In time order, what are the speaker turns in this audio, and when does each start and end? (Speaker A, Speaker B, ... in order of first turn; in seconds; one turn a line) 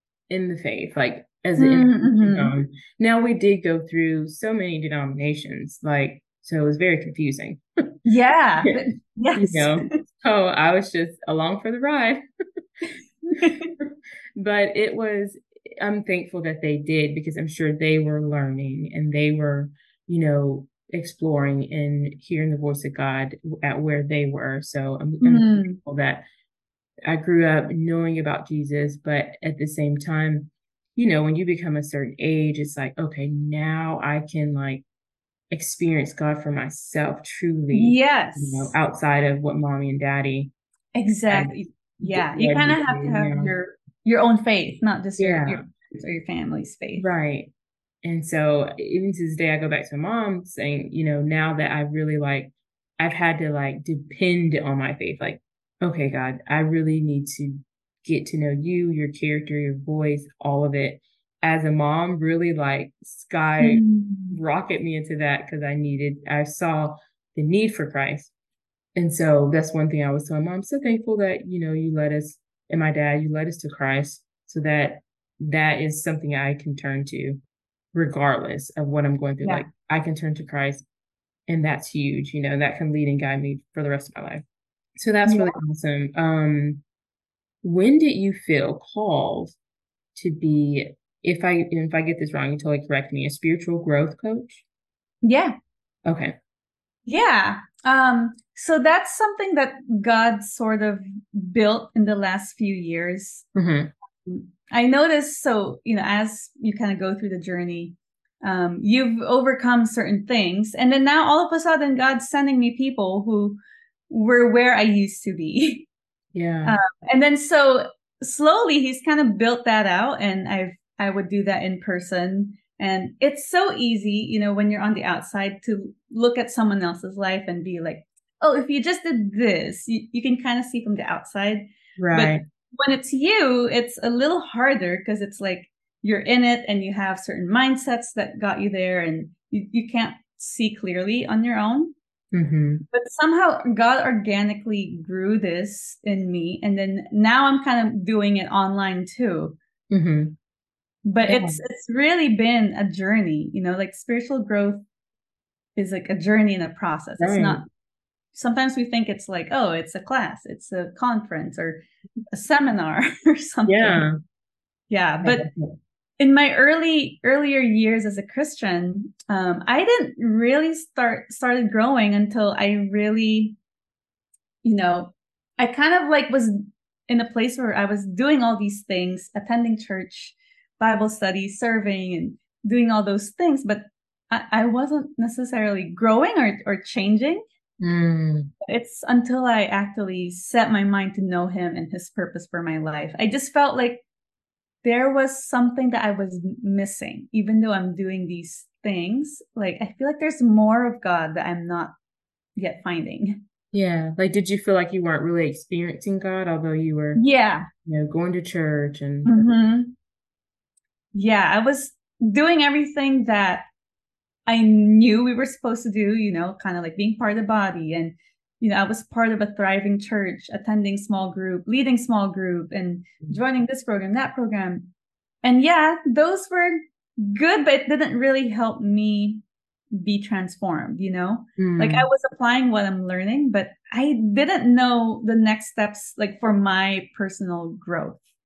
Speaker A: 0.3-7.6
Speaker B: 1.6-2.5
Speaker B: 8.1-9.9
Speaker A: 9.3-12.2
Speaker B: 13.4-13.7
Speaker A: 13.8-26.3
Speaker B: 25.2-25.8
Speaker A: 27.1-34.9
Speaker A: 35.5-40.5
Speaker B: 37.7-38.8
Speaker B: 41.0-47.0
Speaker A: 41.3-43.5
Speaker A: 45.2-45.6
Speaker A: 47.0-47.5
Speaker A: 48.0-68.3
Speaker B: 63.6-64.4
Speaker A: 69.0-77.4
Speaker A: 77.9-80.8
Speaker B: 79.4-79.7
Speaker A: 81.5-84.4
Speaker A: 85.0-86.8
Speaker B: 85.3-85.6
Speaker A: 87.6-89.6
Speaker A: 90.2-94.7
Speaker B: 95.2-95.6
Speaker A: 96.0-96.3
Speaker B: 97.1-103.5
Speaker A: 103.5-103.9
Speaker B: 104.2-113.6
Speaker B: 114.1-115.9
Speaker A: 116.3-116.8
Speaker B: 116.7-141.9
Speaker A: 132.0-132.4
Speaker A: 142.3-142.8
Speaker B: 142.9-149.6
Speaker A: 149.9-150.4
Speaker B: 151.1-154.8
Speaker A: 151.2-151.6
Speaker B: 155.8-157.7
Speaker A: 157.2-157.6
Speaker B: 158.3-161.8
Speaker B: 162.3-164.0
Speaker A: 163.7-164.2
Speaker B: 164.9-165.5
Speaker A: 165.2-165.8
Speaker B: 166.2-173.6
Speaker B: 174.6-187.4
Speaker A: 187.8-188.5
Speaker B: 188.6-194.0
Speaker B: 194.8-201.9
Speaker B: 202.6-203.4
Speaker A: 203.7-207.2
Speaker B: 207.2-207.7
Speaker A: 207.8-209.3
Speaker B: 209.2-209.9
Speaker B: 211.1-213.7
Speaker B: 214.5-224.9
Speaker B: 225.4-238.2
Speaker A: 231.6-232.1